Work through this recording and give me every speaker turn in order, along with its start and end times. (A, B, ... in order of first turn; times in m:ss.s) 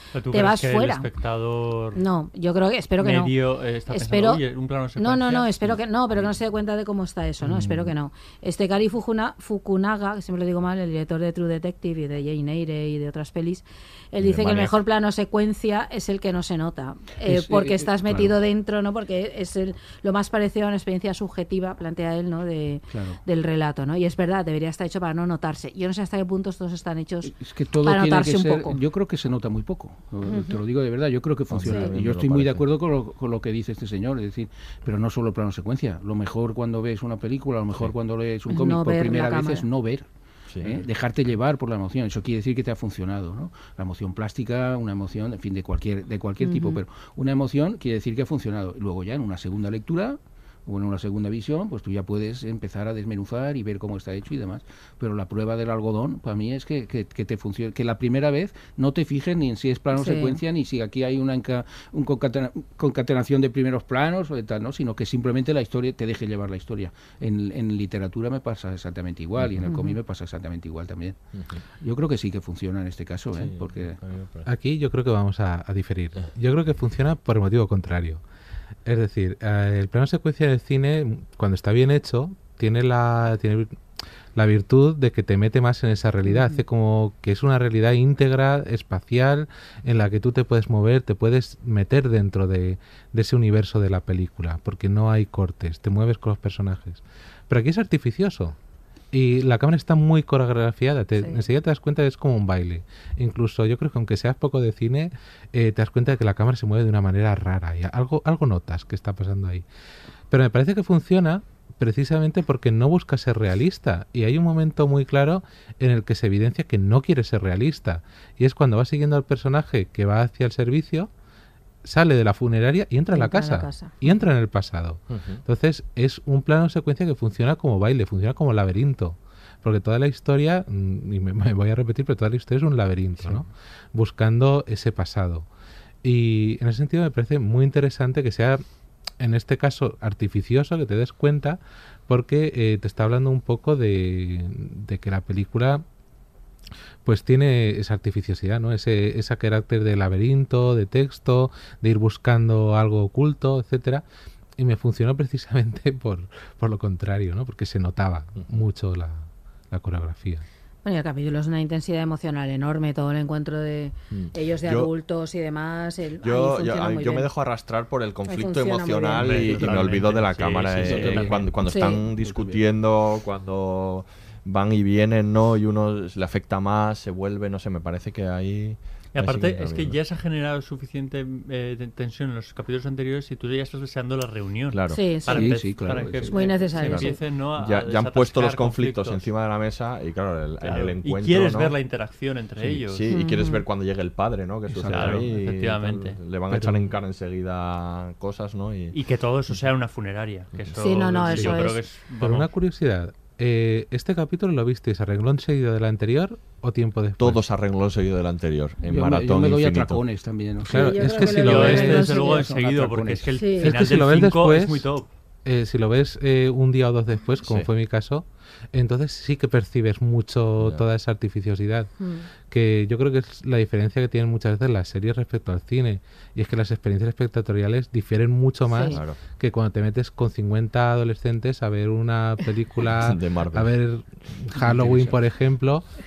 0:00.1-0:02.0 A
0:00.3-0:01.0 B
0:02.0-0:03.3 B
0:03.0-0:06.2 A
0:03.9-0:04.4 B
0:05.0-0:27.3 B
0:07.5-0:07.8 C
0:14.2-0:14.8 D
0:17.2-0:18.4 C
0:22.9-0:23.2 C
0:27.3-0:40.1 C
0:27.8-0:28.8 B
0:30.3-0:30.6 B
0:31.5-0:32.7 D
0:31.6-0:31.9 B
0:38.5-0:39.7 B
0:40.5-0:40.8 D
0:40.6-1:11.2 C
0:46.4-0:46.8 B
0:59.9-1:00.4 B
1:09.6-1:10.0 B
1:11.3-1:11.6 D
1:11.8-1:14.0 C
1:13.3-1:14.5 D
1:14.5-1:18.2 E
1:18.9-1:23.8 E
1:24.4-1:38.6 E
1:26.2-1:26.6 B
1:39.1-1:49.6 E
1:50.3-2:01.1 E
2:01.8-2:15.5 E
2:03.1-2:04.0 B
2:05.1-2:05.4 D
2:16.0-2:18.6 E
2:19.2-2:25.8 E
2:27.0-2:34.0 E
2:34.6-2:40.4 E
2:38.4-2:38.6 D
2:40.8-2:47.3 B
2:44.1-2:44.9 D
2:46.2-3:00.0 D
2:48.3-2:49.3 B
2:49.2-2:51.4 A
2:49.3-2:49.8 C
2:50.8-2:52.6 C
2:51.7-2:52.0 B
2:59.2-3:09.2 A
3:04.7-3:06.1 D
3:04.9-3:05.5 B
3:05.3-3:06.4 C
3:06.3-3:07.2 B
3:06.6-3:11.8 D
3:10.6-3:13.0 A
3:12.6-3:19.0 D
3:13.1-3:13.6 B
3:14.7-3:15.3 C
3:14.9-3:16.2 A
3:16.5-3:16.9 E
3:18.9-3:22.5 A
3:20.8-3:21.8 B
3:21.3-3:27.4 E
3:27.2-3:30.0 D
3:28.9-3:33.3 C
3:30.7-3:32.2 E
3:30.8-3:32.4 B
3:31.3-3:35.1 A
3:33.4-3:33.7 B
3:33.6-3:34.9 E
3:35.4-3:41.9 E
3:42.0-3:42.2 B
3:42.5-3:55.8 E
3:48.7-3:49.0 B
3:48.9-3:49.2 D
3:52.8-3:53.7 D
3:54.6-3:55.2 C